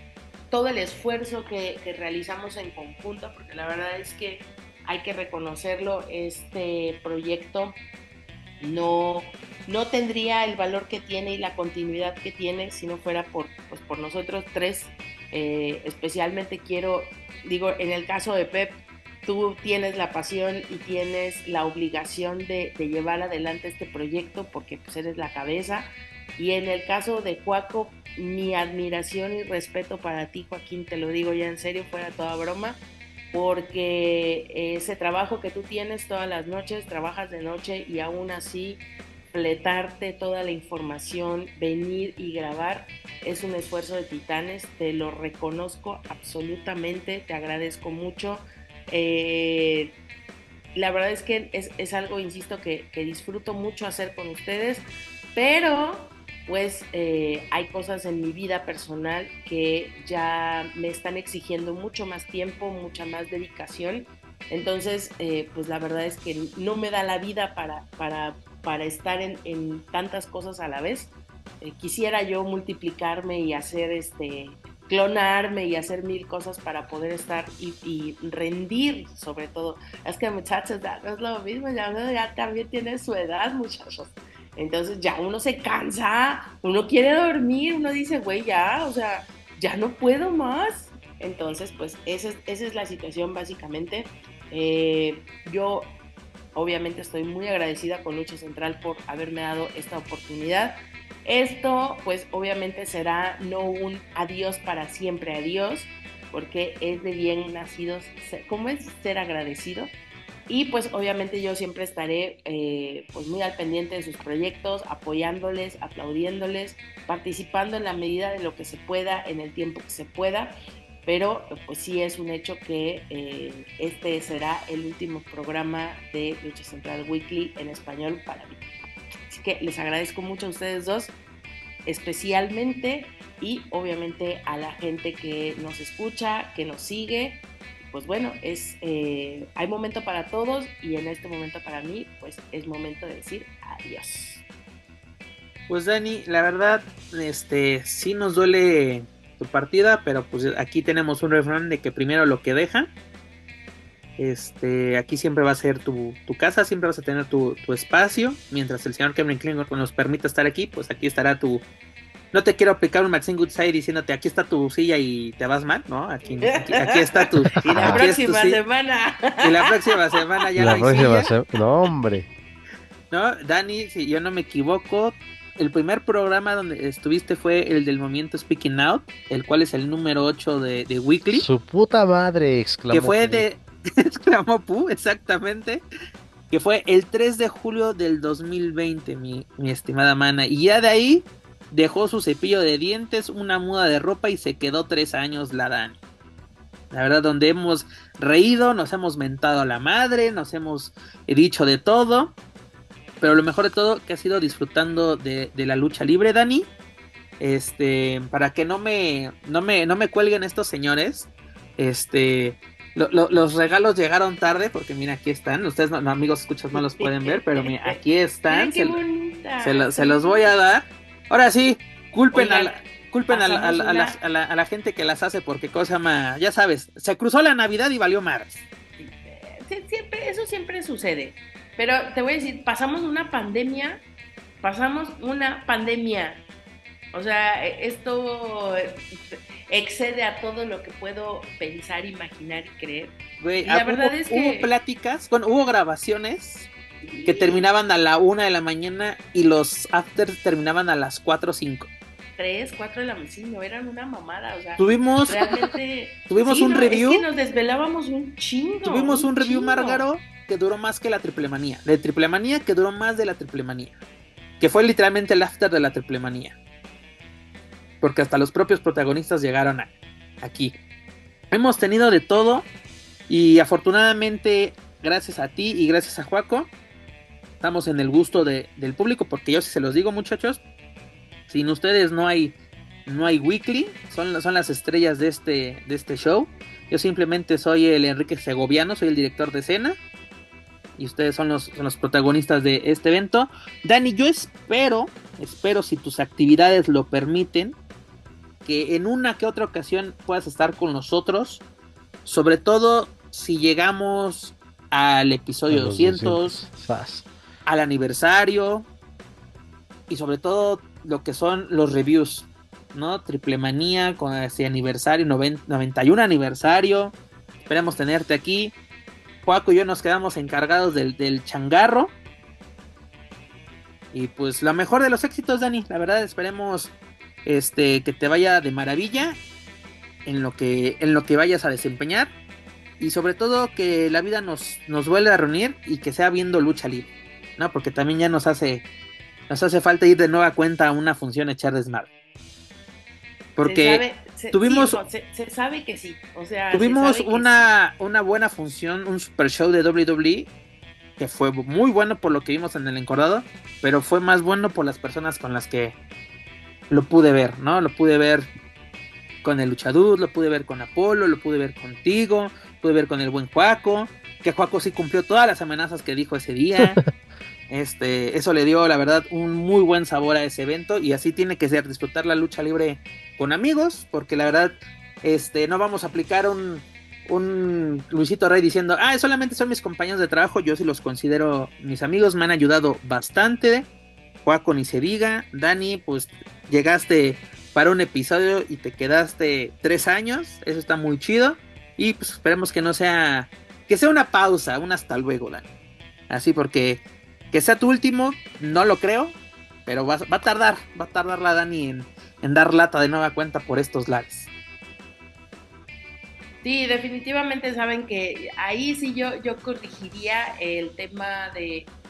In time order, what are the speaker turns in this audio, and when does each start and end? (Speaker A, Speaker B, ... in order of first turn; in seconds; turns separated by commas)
Speaker A: 0.5-7.8, Speaker A: 8.6-38.8, Speaker A: 39.3-50.0, Speaker A: 50.8-96.0, Speaker A: 96.5-110.0, Speaker A: 110.5-128.6, Speaker A: 129.3-131.2, Speaker A: 131.9-144.4, Speaker B: 145.7-152.9, Speaker B: 154.2-161.7, Speaker B: 162.3-168.6, Speaker A: 166.4-170.7, Speaker C: 167.7-168.0, Speaker B: 169.4-171.3, Speaker C: 170.6-172.3, Speaker B: 173.1-181.5, Speaker C: 181.3-183.4, Speaker B: 182.9-185.8, Speaker B: 186.5-196.0, Speaker B: 196.9-202.4, Speaker B: 203.2-206.7, Speaker B: 207.4-219.0, Speaker A: 216.7-220.5, Speaker B: 219.6-228.6, Speaker A: 222.3-224.2, Speaker A: 229.0-234.0, Speaker A: 234.6-236.4, Speaker A: 237.1-244.7, Speaker B: 243.4-246.7, Speaker A: 247.1-247.6, Speaker B: 247.3-251.9, Speaker A: 252.4-260.1, Speaker B: 254.8-255.7, Speaker B: 256.3-257.2, Speaker B: 258.8-264.0, Speaker B: 264.6-266.6, Speaker B: 268.0-270.8, Speaker B: 271.5-272.7, Speaker B: 273.3-276.7, Speaker B: 277.6-280.6, Speaker B: 281.5-290.0, Speaker B: 291.0-297.8, Speaker B: 298.6-301.6, Speaker B: 302.2-306.6, Speaker C: 305.7-307.3, Speaker B: 307.7-308.9, Speaker B: 310.1-317.1, Speaker B: 317.7-318.8, Speaker B: 319.4-322.1, Speaker B: 324.1-326.9, Speaker B: 327.5-329.4, Speaker B: 330.2-332.4, Speaker B: 333.0-338.9, Speaker B: 339.5-342.1, Speaker B: 343.6-345.0, Speaker A: 343.6-347.6, Speaker B: 346.7-350.5, Speaker B: 351.2-356.0, Speaker B: 356.9-358.5, Speaker B: 359.4-367.0, Speaker C: 366.8-367.0, Speaker B: 367.7-383.9, Speaker B: 384.4-395.7, Speaker B: 396.3-404.5, Speaker A: 406.6-411.9